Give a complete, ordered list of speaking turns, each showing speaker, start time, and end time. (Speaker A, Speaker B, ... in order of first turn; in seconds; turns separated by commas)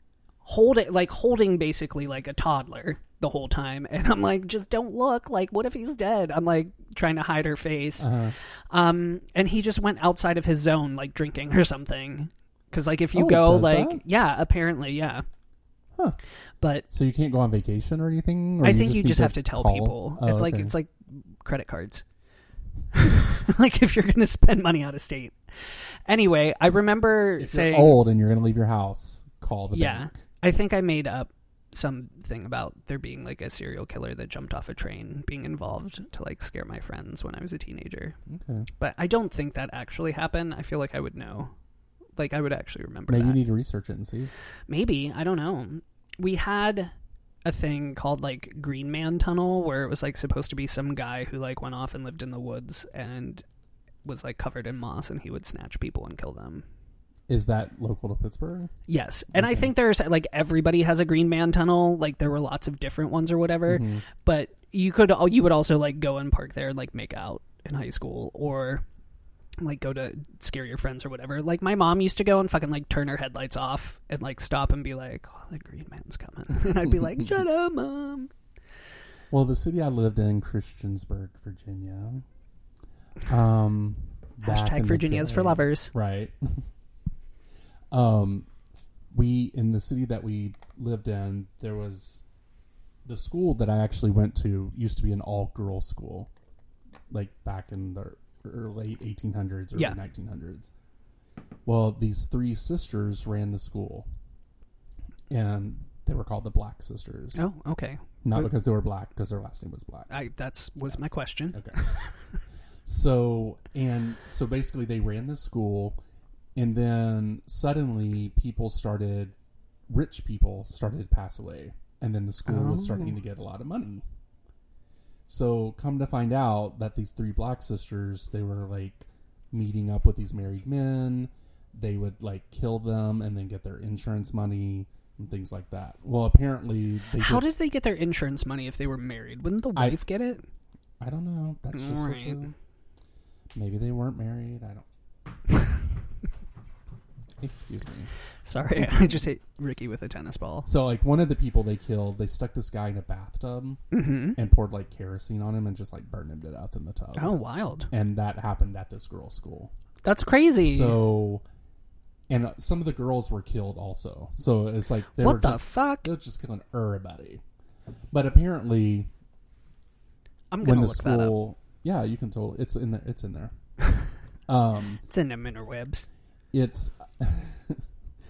Speaker A: 0.4-8.1, Speaker B: 8.0-8.3, Speaker A: 8.7-15.2, Speaker B: 13.1-14.0, Speaker A: 16.6-16.9, Speaker B: 16.9-20.8, Speaker A: 18.6-22.0, Speaker A: 22.9-28.0, Speaker B: 27.4-30.2, Speaker A: 29.7-38.2, Speaker B: 38.3-38.7, Speaker A: 38.8-41.5, Speaker A: 42.2-43.4, Speaker B: 43.1-44.3, Speaker A: 44.7-46.9, Speaker A: 47.5-53.4, Speaker A: 54.0-56.6, Speaker B: 57.3-58.7, Speaker A: 58.9-68.8, Speaker B: 59.3-59.7, Speaker B: 63.7-64.0, Speaker A: 69.6-78.3, Speaker B: 79.3-82.2, Speaker B: 83.3-86.6, Speaker A: 84.4-85.9, Speaker B: 87.9-88.5, Speaker B: 89.1-92.2, Speaker B: 93.0-96.3, Speaker B: 97.1-100.7, Speaker B: 101.7-104.1, Speaker B: 105.3-107.5, Speaker A: 107.3-108.5, Speaker B: 108.2-110.1, Speaker A: 110.1-112.1, Speaker B: 110.8-111.8, Speaker B: 112.9-116.0, Speaker B: 116.5-119.3, Speaker B: 119.9-124.0, Speaker A: 122.5-123.2, Speaker B: 125.3-137.6, Speaker A: 137.2-140.5, Speaker B: 139.8-140.0, Speaker B: 141.0-142.5, Speaker A: 141.7-142.4, Speaker B: 143.6-144.8, Speaker B: 147.4-148.1, Speaker A: 148.4-150.7, Speaker B: 148.8-149.2, Speaker B: 150.7-153.8, Speaker A: 153.9-154.4, Speaker B: 154.3-157.4, Speaker A: 157.2-157.9, Speaker B: 157.9-159.7, Speaker A: 160.0-161.0, Speaker B: 160.6-161.4, Speaker B: 162.3-167.4, Speaker A: 165.2-166.1, Speaker B: 168.1-169.1, Speaker A: 170.5-171.4, Speaker B: 170.6-173.5, Speaker B: 174.5-175.0, Speaker A: 175.1-176.1, Speaker B: 176.5-177.8